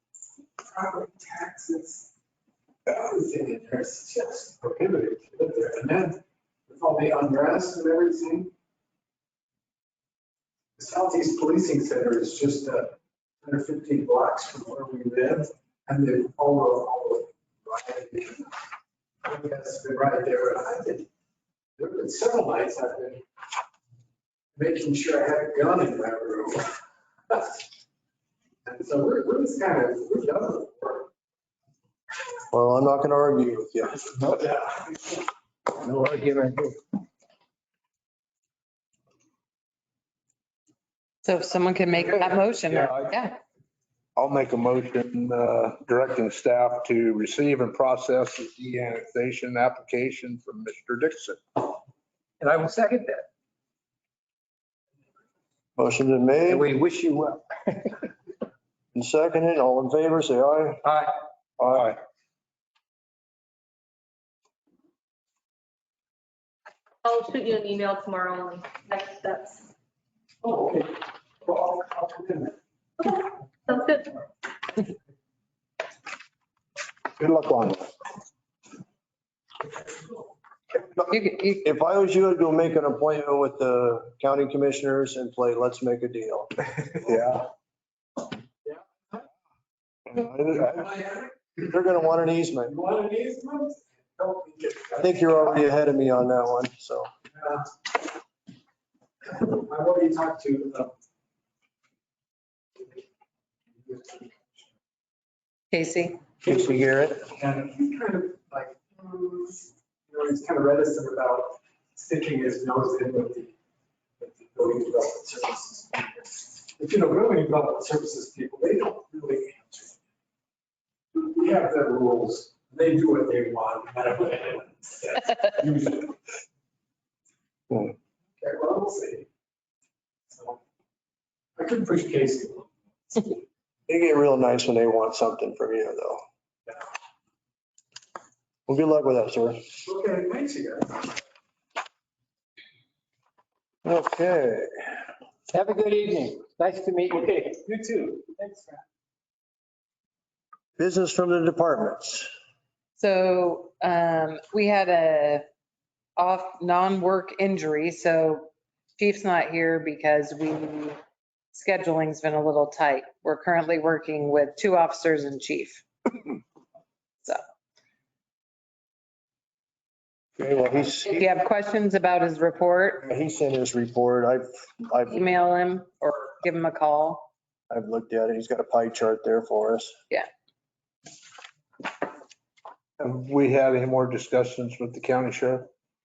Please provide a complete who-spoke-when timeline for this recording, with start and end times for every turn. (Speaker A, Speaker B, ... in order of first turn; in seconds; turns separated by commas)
Speaker A: 0.6-2.1, Speaker A: 2.9-8.5, Speaker A: 10.8-18.5, Speaker A: 19.2-21.1, Speaker A: 21.8-23.2, Speaker A: 24.6-26.8, Speaker A: 27.3-27.6, Speaker A: 28.6-31.1, Speaker B: 32.5-34.3, Speaker A: 34.3-35.2, Speaker C: 35.8-36.8, Speaker D: 41.2-43.4, Speaker E: 44.2-51.7, Speaker C: 52.4-53.3, Speaker B: 55.8-56.7, Speaker C: 56.5-58.1, Speaker B: 59.0-60.8, Speaker C: 60.9-61.1, Speaker B: 61.6-61.9, Speaker F: 67.0-69.7, Speaker A: 70.4-72.6, Speaker F: 73.0-74.2, Speaker E: 77.2-77.9, Speaker B: 80.8-86.5, Speaker D: 81.2-81.6, Speaker E: 87.0-87.5, Speaker A: 88.7-89.2, Speaker E: 90.1-90.9, Speaker A: 90.7-91.5, Speaker B: 91.7-92.7, Speaker A: 92.7-95.6, Speaker B: 95.0-97.1, Speaker A: 97.3-97.7, Speaker A: 99.3-100.9, Speaker A: 102.8-103.0, Speaker A: 103.8-104.7, Speaker D: 105.7-106.2, Speaker A: 106.4-113.5, Speaker A: 114.2-120.0, Speaker A: 121.2-126.2, Speaker A: 128.4-129.3, Speaker A: 130.3-130.6, Speaker A: 131.6-133.3, Speaker B: 133.9-136.2, Speaker B: 138.7-139.7, Speaker A: 139.8-141.2, Speaker B: 143.8-145.0, Speaker C: 145.5-147.5, Speaker A: 147.5-148.8, Speaker B: 150.8-152.3, Speaker D: 153.0-155.4, Speaker D: 156.2-161.0, Speaker D: 161.5-165.8, Speaker B: 170.4-171.2, Speaker D: 171.0-173.0, Speaker B: 173.0-175.2, Speaker D: 175.1-177.3, Speaker B: 177.7-180.0, Speaker E: 183.0-185.7